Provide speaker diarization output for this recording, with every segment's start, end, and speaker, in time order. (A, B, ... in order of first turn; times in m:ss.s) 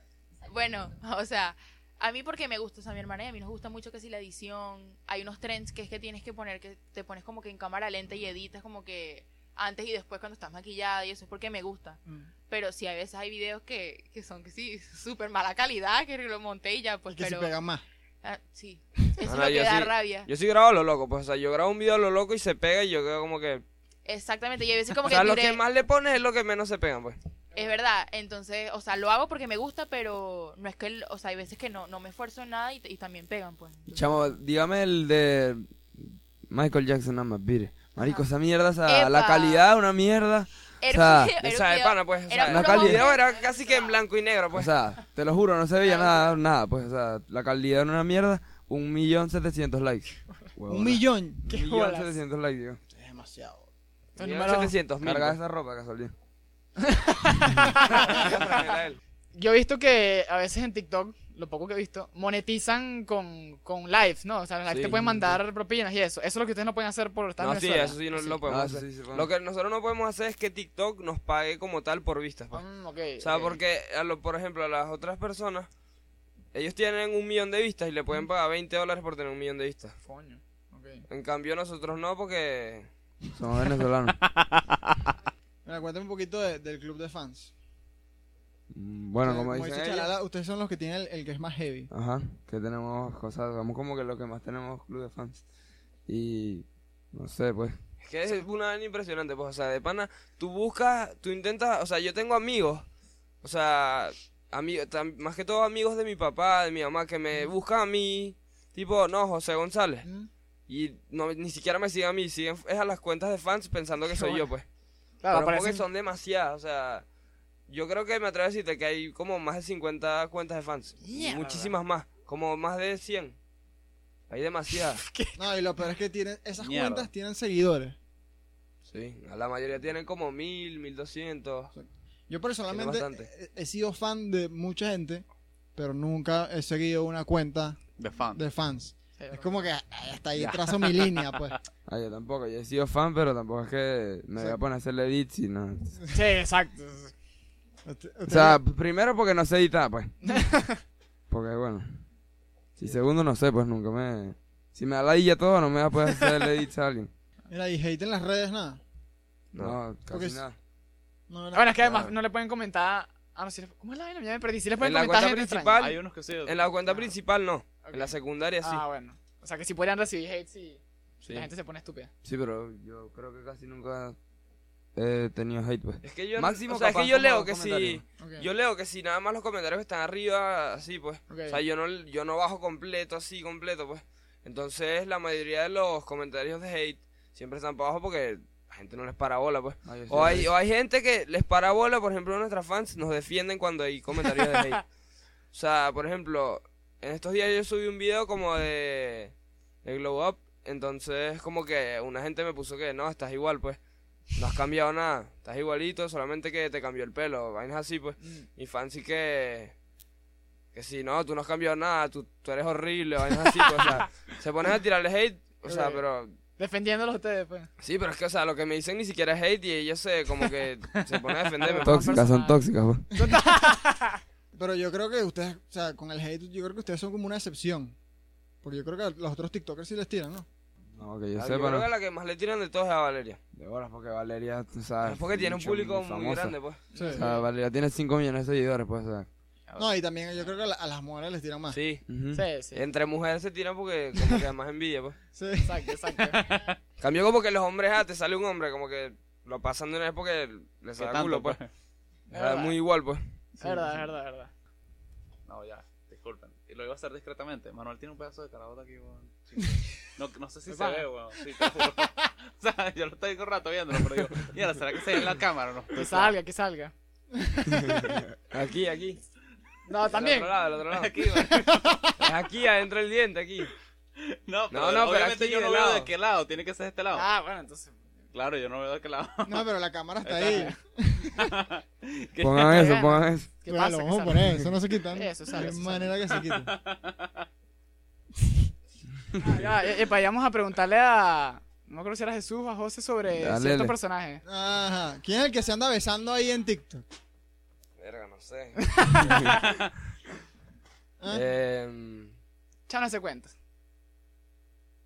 0:00.4-0:17.5 A
0:17.1-0:17.8 B
0:18.2-0:20.3 A
0:19.2-0:23.6 C
0:24.0-0:25.6 A
0:25.0-0:27.2 C
0:27.5-0:34.0 A
0:33.9-0:41.3 D
0:38.8-0:39.7 A
0:40.8-0:44.0 A
0:41.4-0:44.7 C
0:42.4-0:43.0 D
0:44.5-0:52.8 D
0:50.7-0:51.4 B
0:51.4-0:52.2 E
0:52.9-0:53.7 B
0:54.2-0:54.7 E
0:54.2-0:55.4 C
0:55.0-0:56.1 D
0:56.8-0:58.6 E
0:57.9-0:59.0 C
0:59.3-1:08.4 E
1:04.7-1:05.4 D
1:07.4-1:12.6 C
1:08.5-1:09.3 D
1:12.5-1:13.6 E
1:13.2-1:15.7 C
1:16.5-1:19.9 C
1:20.0-1:21.0 E
1:21.1-1:22.9 C
1:23.3-1:24.2 D
1:24.4-1:24.9 F
1:25.6-1:27.5 B
1:28.7-1:30.1 D
1:29.2-1:31.9 B
1:31.9-1:35.4 D
1:36.1-1:37.8 D
1:38.0-1:42.8 C
1:43.4-1:50.0 C
1:50.7-1:54.6 C
1:54.1-1:54.5 E
1:55.2-1:55.8 E
1:55.3-1:57.0 C
1:57.7-2:03.4 C
2:01.0-2:01.7 E
2:04.3-2:05.0 C
2:04.8-2:05.4 E
2:05.4-2:08.0 B
2:06.6-2:07.1 F
2:08.9-2:11.7 C
2:11.7-2:15.2 B
2:12.7-2:13.3 C
2:15.8-2:17.8 B
2:18.0-2:18.4 F
2:18.3-2:21.5 B
2:19.2-2:19.5 E
2:20.3-2:21.6 F
2:21.9-2:26.0 D
2:26.1-2:27.1 E
2:27.8-2:28.6 B
2:28.3-2:30.2 D
2:30.2-2:30.8 E
2:31.3-2:32.0 D
2:32.8-2:37.1 D
2:37.5-2:38.8 B
2:39.5-2:39.8 C
2:39.6-2:40.6 D
2:40.1-2:40.4 B
2:41.3-2:41.7 B
2:41.5-2:45.8 E
2:41.8-2:42.1 C
2:44.8-2:48.8 C
2:45.8-2:46.7 F
2:47.8-2:52.1 E
2:51.2-2:51.5 C
2:52.2-2:54.2 D
2:55.0-2:58.0 D
2:56.0-3:14.8 C
2:58.2-2:58.5 E
3:01.3-3:01.6 E
3:09.8-3:10.5 D
3:15.5-3:19.3 C
3:19.8-3:23.8 C
3:24.3-3:29.7 C
3:30.7-3:36.4 C
3:35.6-3:36.0 E
3:36.6-3:37.7 E
3:37.8-3:42.2 C
3:41.6-3:42.6 E
3:41.8-3:43.1 D
3:43.1-3:44.2 E
3:44.5-3:47.9 B
3:48.6-3:50.4 B
3:51.0-3:51.9 D
3:51.4-3:53.4 C
3:53.5-3:56.5 D
3:55.0-3:56.8 C
3:56.9-3:57.4 E
3:57.0-3:57.2 B
3:57.1-3:59.3 D
3:59.8-4:01.8 B
4:01.7-4:02.0 C
4:02.1-4:02.4 D
4:02.3-4:02.8 E
4:02.7-4:05.2 C
4:05.3-4:06.0 B
4:05.6-4:06.6 E
4:06.3-4:06.8 F
4:07.0-4:11.6 C
4:11.0-4:11.7 F
4:12.3-4:12.8 E
4:12.3-4:13.2 C
4:13.6-4:14.5 E
4:15.5-4:26.3 F
4:20.7-4:21.1 E
4:25.9-4:26.9 E
4:27.7-4:28.0 E
4:28.5-4:29.2 C
4:29.9-4:30.5 E
4:30.1-4:31.2 C
4:30.9-4:32.0 F
4:32.2-4:33.7 C
4:34.2-4:37.3 F
4:34.7-4:36.1 C
4:37.1-4:38.0 E
4:38.3-4:39.6 F
4:39.4-4:41.5 B
4:40.2-4:40.7 F
4:40.4-4:40.7 E
4:41.4-4:42.8 F
4:42.4-4:43.5 D
4:42.7-4:46.2 E
4:43.7-4:46.7 B
4:46.5-4:47.4 F
4:49.4-4:54.4 E
4:53.4-4:53.9 D
4:54.4-4:57.0 B
4:58.0-4:59.4 C
4:58.8-4:59.6 E
5:01.2-5:01.4 B
5:01.3-5:02.3 C
5:02.9-5:03.5 E